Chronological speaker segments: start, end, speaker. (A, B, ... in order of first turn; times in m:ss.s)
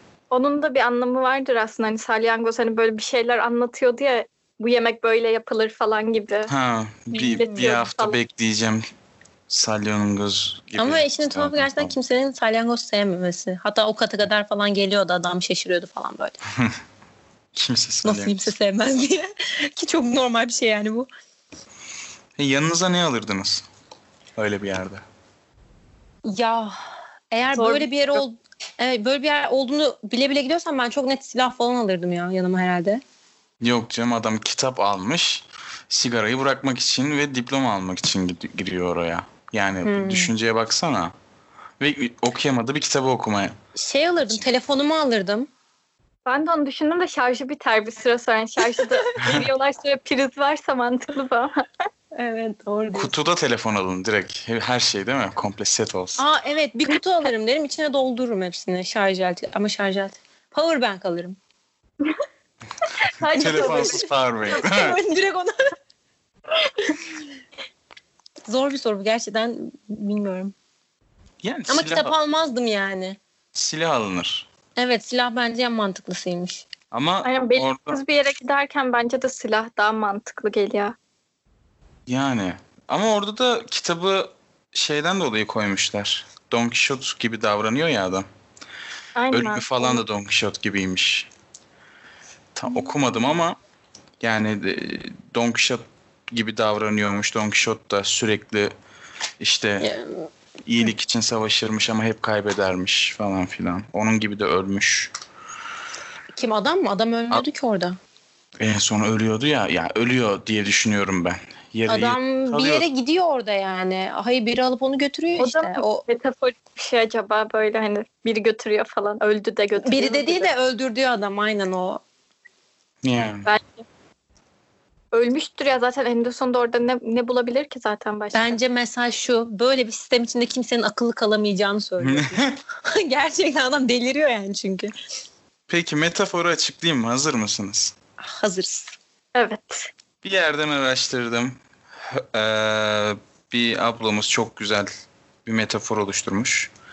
0:00.3-0:06.5 A
0:06.5-0:08.8 B
0:07.1-0:08.2 A
0:07.4-0:07.7 C
0:09.5-0:11.9 B
0:10.8-0:16.4 C
0:17.5-0:18.5 B
0:18.0-0:21.1 C
0:22.4-0:23.6 B
0:24.4-0:25.0 B
0:26.2-0:26.8 C
0:27.3-0:33.0 C
0:27.6-0:28.2 A
0:33.6-0:41.1 B
0:39.8-0:40.3 C
0:41.8-0:43.5 B
0:43.8-0:45.5 C
0:46.2-0:51.6 A
0:48.7-0:49.0 C
0:49.2-0:49.5 B
0:52.1-0:53.1 C
0:52.9-0:56.2 B
0:56.2-1:01.4 C
1:03.0-1:04.0 A
1:03.3-1:05.0 B
1:03.3-1:05.6 C
1:08.5-1:10.5 C
1:11.4-1:12.1 B
1:11.7-1:13.2 C
1:13.5-1:14.5 B
1:14.8-1:16.6 C
1:16.9-1:18.0 B
1:17.2-1:20.9 A
1:22.1-1:28.2 B
1:29.2-1:30.0 A
1:29.3-1:31.3 B
1:32.5-1:33.6 B
1:34.2-1:38.7 B
1:39.4-1:39.9 B
1:39.8-1:40.3 C
1:40.6-1:45.1 B
1:46.3-1:48.0 C
1:48.6-1:52.8 B
1:51.9-1:56.0 C
1:55.4-2:00.5 A
1:59.8-2:02.0 C
2:03.0-2:03.5 B
2:03.4-2:03.8 A
2:05.1-2:08.6 A
2:08.3-2:14.9 C
2:12.0-2:12.6 B
2:15.7-2:17.9 B
2:18.2-2:18.9 C
2:19.3-2:19.9 A
2:20.2-2:24.9 B
2:25.4-2:26.7 B